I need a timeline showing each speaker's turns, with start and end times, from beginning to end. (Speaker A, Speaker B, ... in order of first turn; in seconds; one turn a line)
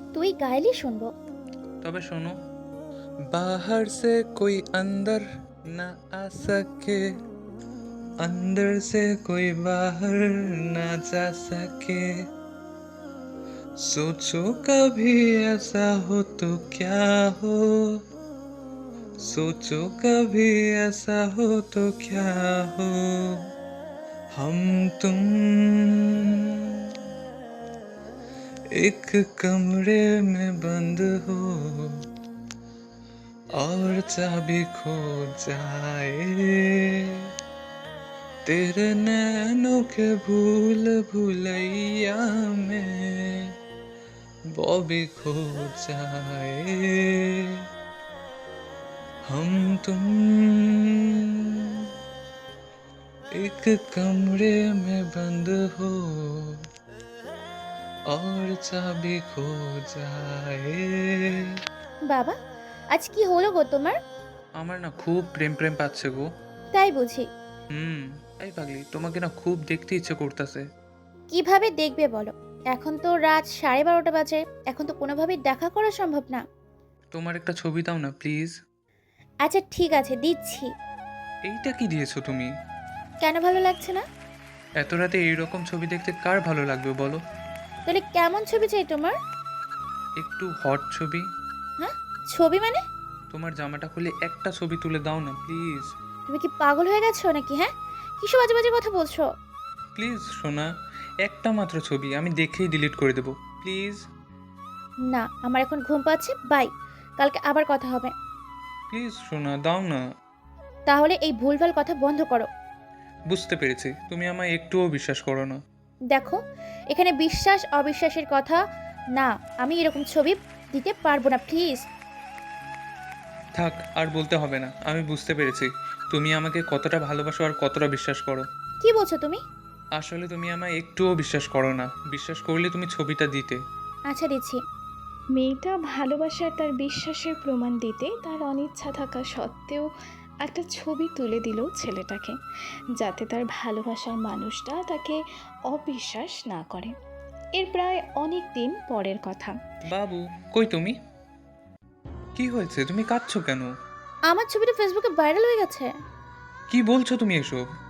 Speaker A: 0.2-1.1
Speaker B: 1.8-2.3
Speaker B: 3.3-7.0
Speaker B: 8.2-12.0
Speaker B: 13.9-18.0
Speaker B: 19.3-23.4
Speaker B: 24.4-26.9
Speaker B: 28.8-31.9
Speaker B: 33.6-37.3
Speaker B: 38.5-43.5
Speaker B: 44.6-47.6
Speaker B: 49.3-51.9
Speaker B: 53.4-56.6
Speaker B: 58.1-61.5
Speaker A: 62.1-62.3
Speaker A: 63.0-64.0
Speaker B: 64.6-66.3
Speaker A: 66.7-67.2
Speaker B: 67.7-70.6
Speaker A: 71.3-76.4
Speaker B: 77.1-78.5
Speaker A: 79.4-80.7
Speaker B: 81.5-82.5
Speaker A: 83.2-84.0
Speaker B: 84.8-87.2
Speaker A: 87.9-89.2
Speaker B: 90.2-91.2
Speaker A: 91.8-92.8
Speaker B: 93.3-95.9
Speaker A: 96.3-99.3
Speaker B: 100.0-100.7
Speaker B: 101.2-104.0
Speaker A: 105.1-108.1
Speaker B: 108.9-110.0
Speaker A: 110.9-112.5
Speaker B: 113.3-115.6
Speaker A: 116.1-116.4
Speaker A: 116.9-118.6
Speaker A: 119.2-121.8
Speaker B: 123.5-128.5
Speaker A: 128.8-129.4
Speaker B: 130.0-133.6
Speaker A: 134.1-134.6
Speaker C: 135.3-139.9
Speaker C: 140.4-142.4
Speaker C: 143.0-146.9
Speaker C: 147.6-149.6
Speaker B: 149.9-150.9
Speaker B: 152.4-153.7
Speaker A: 154.3-155.9
Speaker B: 156.7-157.6